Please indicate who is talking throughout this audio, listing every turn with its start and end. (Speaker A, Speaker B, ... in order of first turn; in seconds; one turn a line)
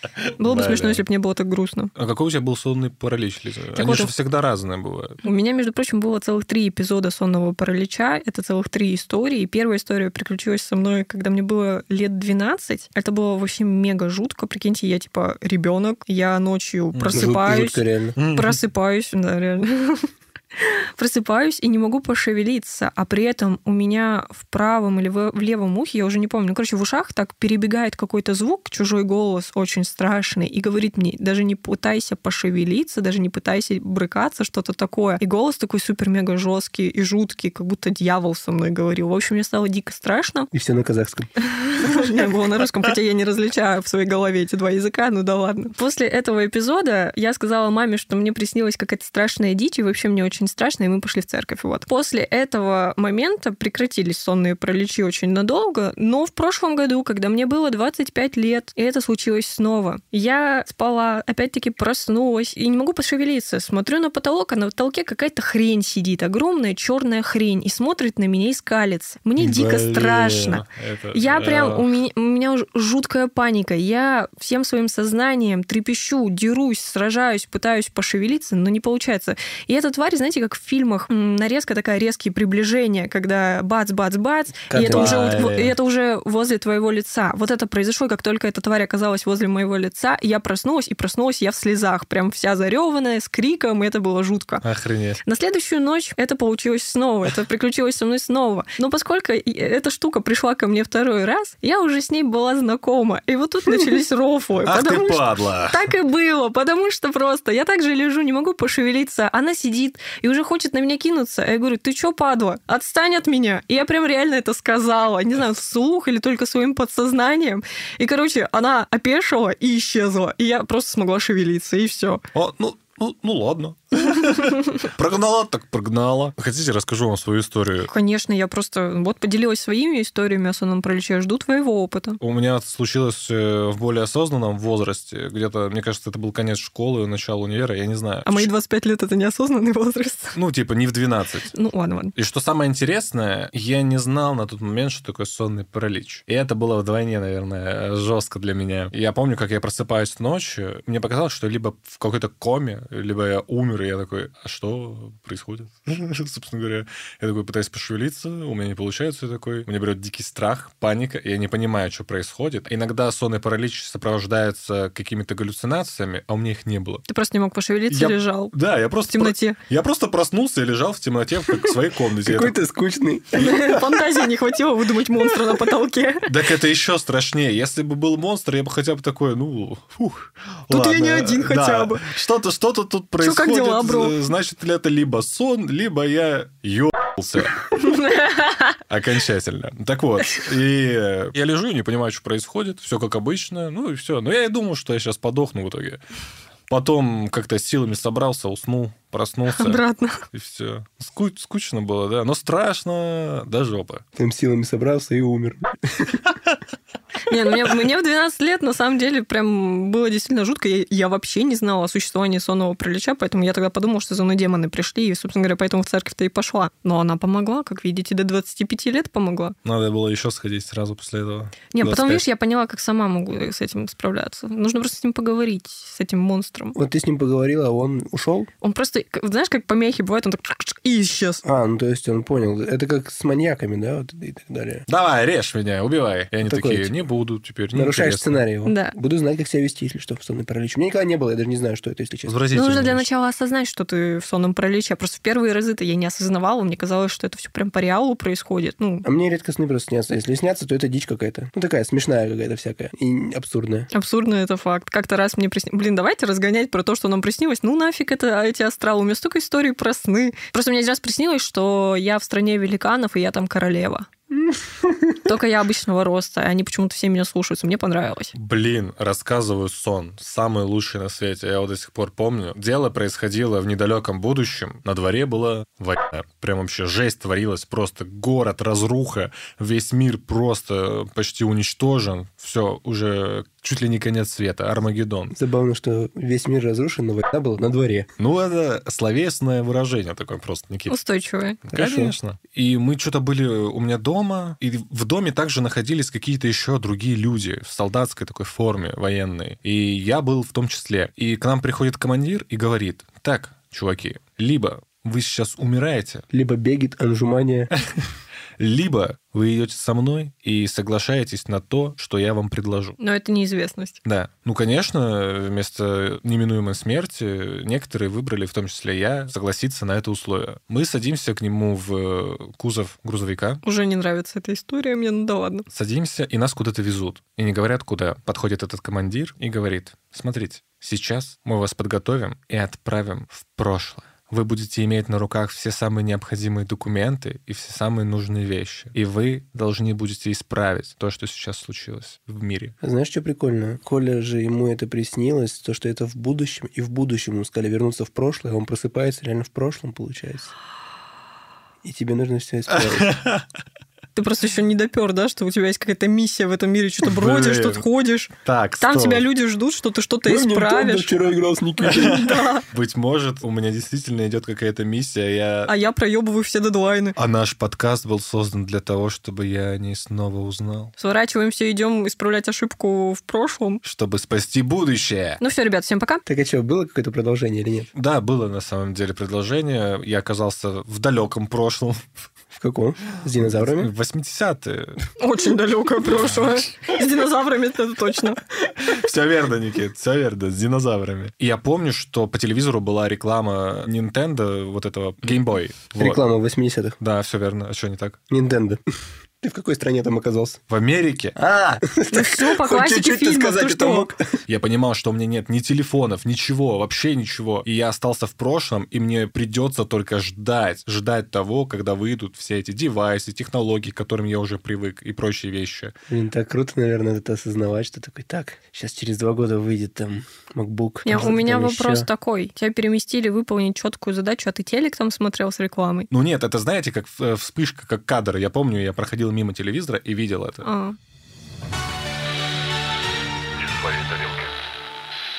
Speaker A: 0.4-1.9
Speaker B: 0.4-1.0
Speaker B: 1.9-5.2
Speaker A: 3.7-4.1
Speaker A: 5.2-40.5
Speaker B: 16.9-17.3
Speaker C: 17.1-18.1
Speaker B: 18.1-18.6
Speaker C: 40.5-41.3
Speaker A: 41.6-94.6
Speaker B: 69.4-71.9
Speaker C: 84.7-85.2
Speaker B: 84.8-85.7
Speaker B: 94.6-95.2
Speaker A: 95.2-122.2
Speaker B: 104.6-105.9
Speaker B: 122.3-127.9
Speaker A: 127.8-132.2
Speaker B: 132.2-138.5
Speaker A: 138.2-140.3
Speaker B: 140.3-141.5
Speaker A: 141.5-142.1
Speaker B: 142.2-167.0
Speaker A: 167.1-168.5
Speaker B: 167.9-172.6
Speaker A: 169.1-169.6
Speaker C: 172.2-174.0
Speaker A: 173.3-176.3
Speaker B: 176.2-187.7
Speaker A: 180.7-182.1
Speaker A: 183.2-184.2
Speaker A: 187.7-188.8
Speaker B: 188.9-196.0
Speaker B: 196.7-204.0
Speaker A: 199.5-200.2
Speaker C: 204.2-206.3
Speaker A: 207.3-219.5
Speaker B: 219.6-222.2
Speaker A: 221.7-226.8
Speaker C: 226.7-228.5
Speaker A: 228.6-231.4
Speaker C: 231.4-234.8
Speaker B: 234.9-238.4
Speaker C: 236.4-237.0
Speaker C: 237.7-242.3
Speaker A: 238.6-238.9
Speaker B: 242.2-243.1
Speaker A: 242.5-249.1
Speaker C: 249.0-253.9
Speaker A: 253.9-264.1
Speaker C: 264.5-265.1
Speaker A: 265.2-268.3
Speaker B: 268.3-285.3
Speaker C: 285.3-288.1
Speaker B: 288.2-290.9
Speaker A: 290.9-291.6
Speaker B: 291.6-306.2
Speaker C: 291.7-292.1
Speaker C: 306.3-307.7
Speaker B: 308.6-313.0
Speaker A: 313.0-314.0
Speaker B: 314.0-323.6
Speaker A: 323.6-325.6
Speaker B: 325.7-342.7
Speaker C: 342.8-350.5
Speaker C: 351.8-353.1
Speaker B: 352.7-353.4
Speaker A: 354.1-361.1
Speaker B: 357.0-357.8
Speaker B: 358.4-359.2
Speaker C: 360.2-362.2
Speaker A: 361.9-362.6
Speaker B: 361.9-365.7
Speaker A: 365.6-367.1
Speaker B: 367.2-370.9
Speaker A: 371.0-373.8
Speaker B: 373.8-375.4
Speaker A: 375.4-376.2
Speaker C: 376.2-377.9
Speaker B: 377.9-382.0
Speaker C: 382.5-383.9
Speaker B: 383.4-385.0
Speaker A: 385.2-388.4
Speaker B: 388.8-396.2
Speaker C: 396.0-396.9
Speaker B: 397.0-398.2
Speaker C: 398.3-398.8
Speaker C: 399.4-400.6
Speaker B: 400.7-401.4
Speaker C: 401.4-404.4
Speaker A: 402.1-404.1
Speaker B: 404.5-415.9
Speaker C: 416.1-422.1
Speaker A: 421.0-426.1
Speaker B: 426.1-430.6
Speaker A: 430.6-430.9
Speaker B: 433.7-434.3